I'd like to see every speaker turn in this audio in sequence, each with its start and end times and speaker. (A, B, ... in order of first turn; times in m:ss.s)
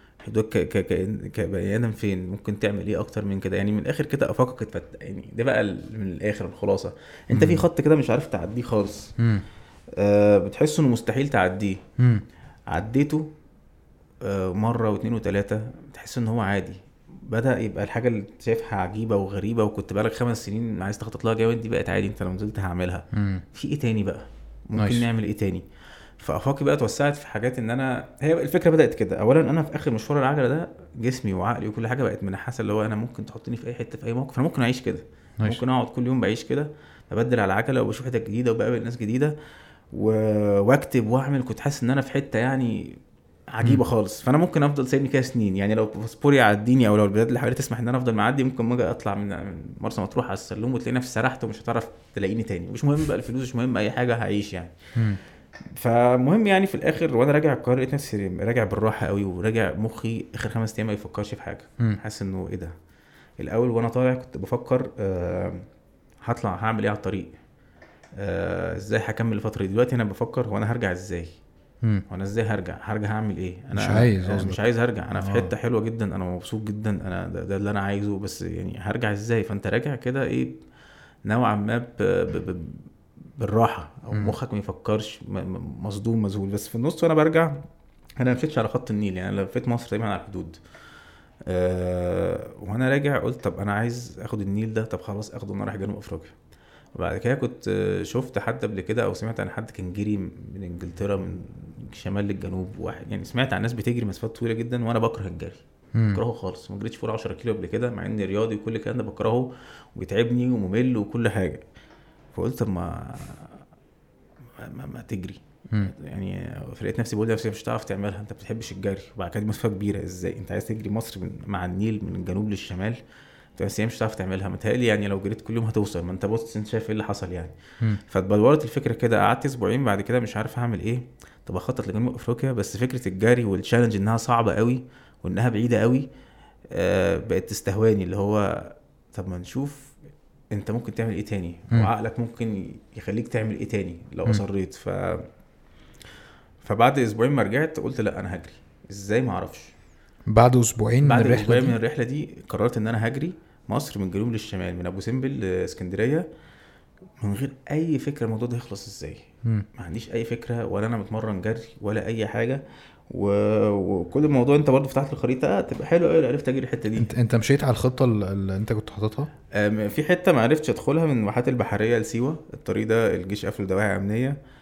0:00.2-0:09.1 A
0:07.3-0:07.6 B
0:09.2-0:09.4 B
0:10.0-0:11.8 A
0:12.0-0:12.2 B
0:12.7-0:13.3 A
0:14.2-0:25.6 A
0:23.1-0:23.4 B
0:24.8-0:25.0 B
0:26.2-0:39.3 A
0:39.9-0:54.7 A
0:55.7-1:02.7 A
1:03.4-1:05.7 A
1:06.2-1:07.3 A
1:08.2-1:11.3 A
1:12.1-1:20.6 A
1:13.7-1:14.6 B
1:15.1-1:15.5 B
1:21.2-1:22.8 A
1:23.4-1:27.6 A
1:28.2-1:30.6 A
1:31.5-1:36.3 A
1:36.9-1:51.6 A
1:45.9-1:46.2 B
1:52.3-1:53.6 A
1:54.6-2:03.0 A
2:03.6-2:07.5 A
2:08.1-2:16.1 A
2:16.7-2:19.9 A
2:20.5-2:25.3 A
2:26.6-2:29.7 A
2:30.3-2:31.8 B
2:31.0-2:36.3 A
2:37.2-2:47.1 A
2:47.0-2:49.3 B
2:49.5-2:54.4 A